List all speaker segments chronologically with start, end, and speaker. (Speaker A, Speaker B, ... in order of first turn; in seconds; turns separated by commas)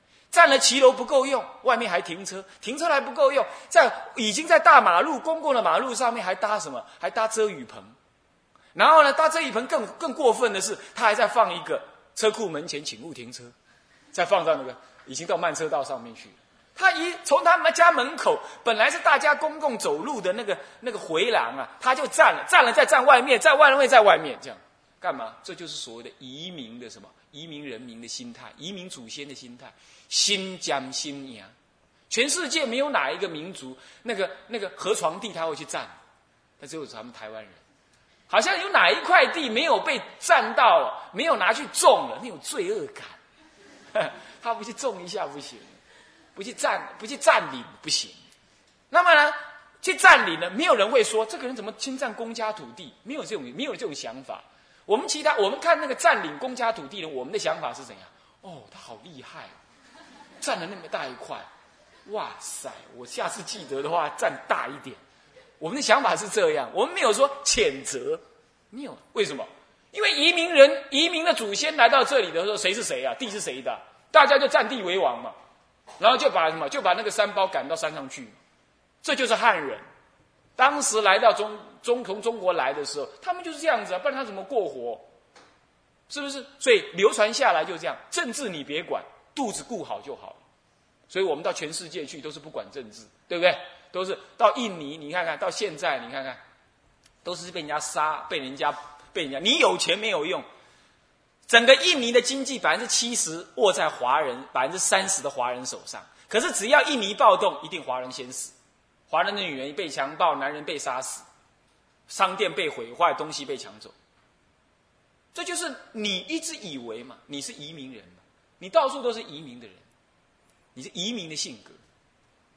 Speaker A: 0.3-8.0, Speaker A: 8.7-13.5, Speaker A: 14.1-31.5, Speaker A: 32.1-35.9, Speaker A: 36.6-37.6, Speaker A: 38.3-43.2, Speaker A: 43.9-45.8, Speaker A: 46.4-48.1, Speaker A: 48.9-59.5, Speaker A: 60.4-61.5, Speaker A: 62.1-65.0, Speaker A: 65.6-75.3, Speaker A: 76.0-78.4, Speaker A: 79.0-79.8, Speaker A: 80.6-85.1, Speaker A: 86.1-90.5, Speaker A: 91.1-96.4, Speaker A: 97.2-100.5, Speaker A: 101.5-108.5, Speaker A: 109.1-111.2, Speaker A: 112.1-114.0, Speaker A: 115.3-119.9, Speaker A: 120.8-121.8